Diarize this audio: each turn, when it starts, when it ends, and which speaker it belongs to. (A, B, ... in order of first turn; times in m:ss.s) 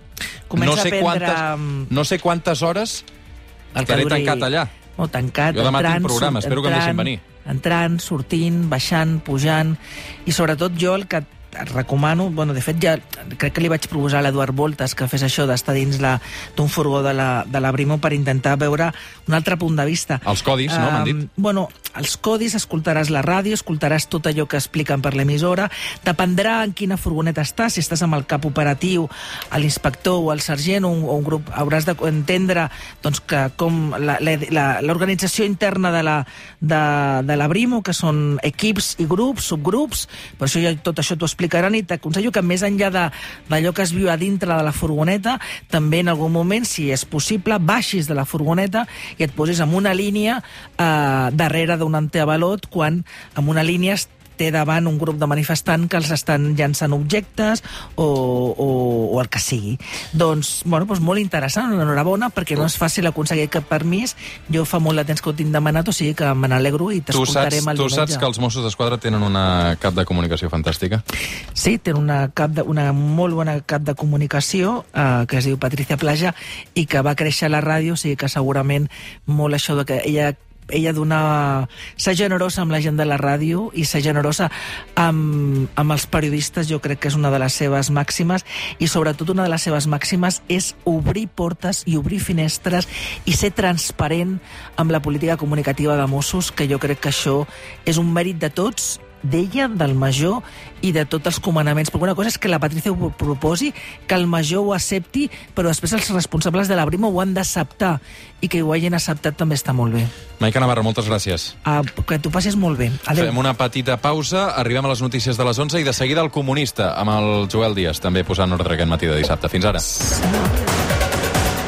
0:00.5-0:01.9 A
0:00.6-0:03.0 B
0:03.7-1:08.2 A
0:03.8-0:04.7 B
0:05.5-0:07.2 B
0:20.2-0:21.2 B
1:07.1-1:11.0 B
1:11.6-1:50.1 A
1:50.4-1:51.6 B
1:51.6-1:53.4 A
1:53.2-1:59.8 B
2:00.1-2:00.6 A